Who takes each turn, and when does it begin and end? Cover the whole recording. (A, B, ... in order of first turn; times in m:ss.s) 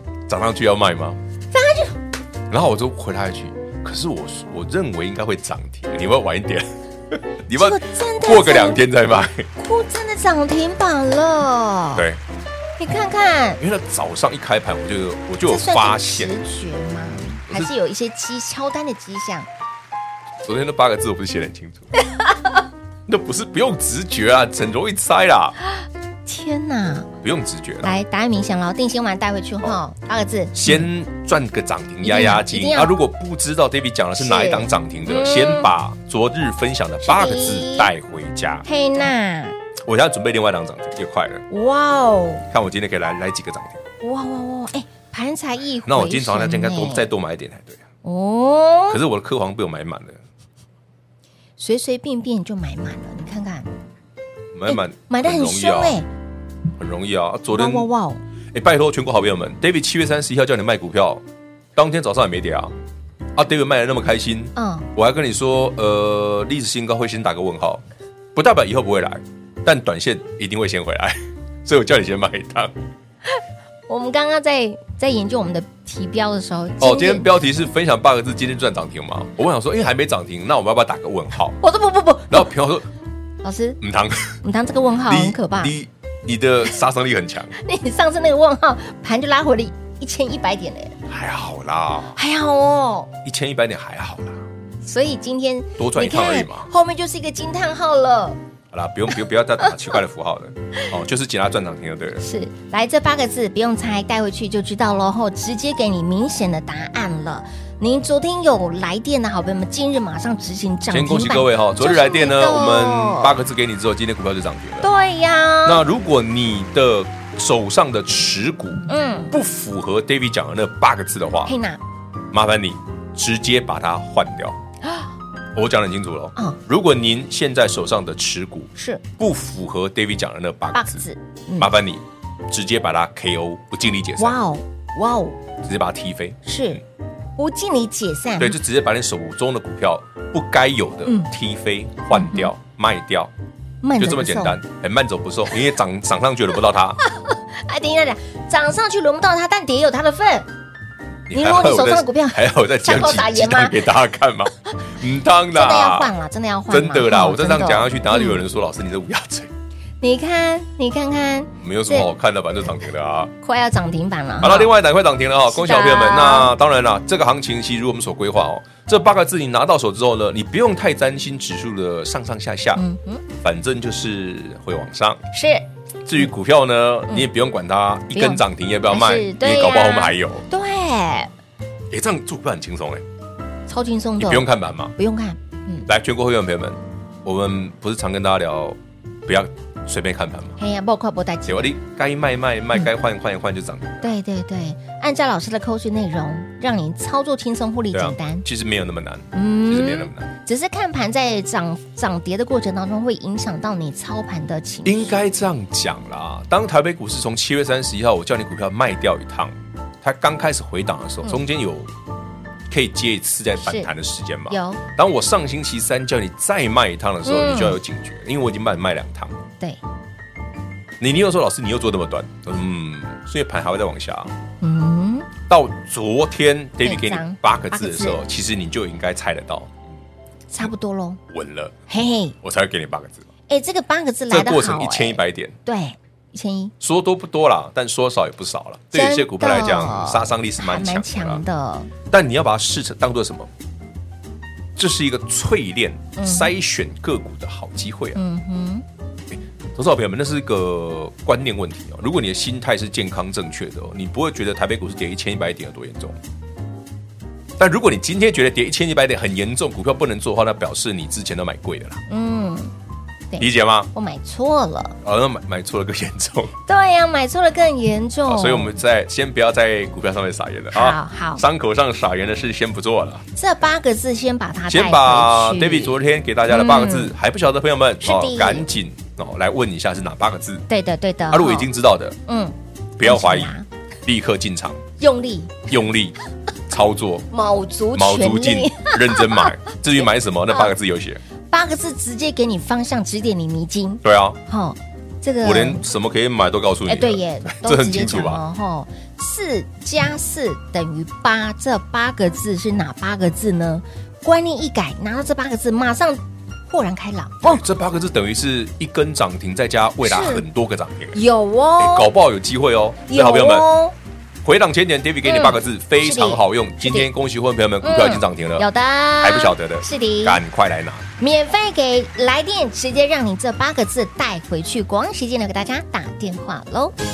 0:00.3-0:01.2 A
0:01.5-0:02.0 B
0:02.5-0:09.5 A
0:07.5-0:08.8 B
0:09.6-0:12.0 B
0:11.9-0:12.2 A
0:12.8-0:13.6 B
0:13.6-0:16.3 A
0:15.4-0:19.5 B
0:20.4-0:21.9 A
0:23.1-0:25.6 A
0:26.2-0:27.1 B
0:27.2-0:27.9 A
0:27.8-0:30.8 B
0:30.5-0:38.6 A
0:32.0-0:33.0 B
0:34.2-0:35.7 B
0:37.0-0:37.9 B
0:38.6-0:39.6 B
0:39.8-0:41.4 A
0:41.5-0:42.4 B
0:42.5-0:43.8 A
0:44.0-0:47.1 B
0:45.8-0:47.8 A
0:48.0-0:49.0 B
0:48.9-0:50.2 A
0:51.6-0:53.7 B
0:54.5-0:56.0 A
0:54.7-0:56.1 B
0:56.8-0:57.9 A
0:57.5-0:58.2 B
0:58.5-1:01.2 A
1:01.8-1:02.7 A
1:03.4-1:07.8 A
1:04.6-1:04.9 B
1:08.3-1:12.7 A
1:13.9-1:17.3 B
1:16.8-1:21.6 A
1:21.6-1:22.5 B
1:22.3-1:22.9 A
1:23.4-1:23.8 B
1:23.8-1:24.4 A
1:24.4-1:25.7 B
1:25.1-1:27.5 A
1:27.6-1:31.0 B
1:31.1-1:32.2 A
1:32.1-1:33.1 B
1:33.2-1:34.4 A
1:34.8-1:38.4 B
1:35.8-1:36.7 A
1:38.7-1:42.2 A
1:42.2-1:53.4 B
1:50.9-1:54.9 A
1:54.8-1:55.8 B
1:55.6-2:01.5 A
1:58.9-1:59.3 B
2:01.4-2:01.8 B
2:02.3-2:04.6 A
2:05.5-2:11.0 A
2:08.8-2:09.0 B
2:10.7-2:11.7 B
2:11.6-2:14.4 A
2:14.2-2:15.4 B
2:15.6-2:16.4 A
2:16.4-2:16.8 B
2:17.4-2:18.6 B
2:18.4-2:23.3 A
2:22.1-2:22.5 B
2:23.8-2:24.6 B
2:24.0-2:27.0 A
2:27.3-2:30.5 B
2:31.3-2:36.1 A
2:31.3-2:33.8 B
2:35.5-2:38.4 B
2:36.7-2:39.5 A
2:40.0-2:42.1 B
2:41.6-2:43.3 A
2:43.4-2:44.7 B
2:44.4-2:52.8 A
2:45.5-2:46.5 B
2:52.8-2:53.2 B
2:53.4-2:55.2 A
2:55.3-2:55.6 B
2:56.0-3:00.4 A
2:58.1-3:01.3 B
3:01.9-3:03.0 A
3:03.7-3:05.9 B
3:04.2-3:04.9 A
3:05.9-3:10.6 A
3:10.6-3:11.7 B
3:11.5-3:14.1 A
3:14.0-3:18.4 B
3:17.9-3:20.3 A
3:19.3-3:25.2 B
3:24.8-3:31.9 A
3:32.7-3:39.4 A
3:33.6-3:33.9 B
3:34.5-3:34.8 B
3:37.2-3:37.8 B
3:41.0-3:44.3 A
3:44.6-3:45.3 B
3:45.5-3:49.7 A
3:46.8-3:48.2 B
3:50.5-3:51.2 B
3:51.3-3:51.7 A
3:51.9-3:52.3 B
3:52.4-3:53.2 A
3:53.5-3:56.7 B
3:54.3-3:55.6 A
3:56.8-4:01.4 A
3:58.9-4:01.9 B
4:02.1-4:03.5 A
4:04.8-4:08.2 A
4:06.2-4:06.5 B
4:08.1-4:08.8 B
4:09.3-4:16.2 A
4:17.6-4:22.0 A
4:22.1-4:22.7 B
4:23.3-4:25.0 B
4:23.4-4:23.9 A
4:25.0-4:26.5 A
4:26.6-4:28.7 B
4:28.3-4:33.2 A
4:30.7-4:31.4 B
4:33.4-4:36.0 B
4:34.7-4:40.7 A
4:36.5-4:37.1 B
4:38.0-4:38.7 B
4:40.7-4:41.7 B
4:41.3-4:42.2 A
4:42.3-4:43.6 B
4:43.0-4:43.5 A
4:44.0-4:44.8 A
4:45.0-4:45.7 B
4:45.7-4:46.2 A
4:46.7-4:47.3 A
4:47.3-4:49.5 B
4:47.9-4:51.2 A
4:51.5-4:55.8 B
4:54.0-4:54.4 A
4:55.4-4:58.4 A
4:56.9-5:07.6 B
5:07.4-5:11.2 A
5:10.0-5:10.4 B
5:11.1-5:12.1 B
5:11.8-5:13.7 A
5:13.1-5:13.9 B
5:14.4-5:18.7 A
5:15.2-5:17.1 B
5:17.8-5:20.4 B
5:19.2-5:21.0 A
5:21.2-5:26.9 B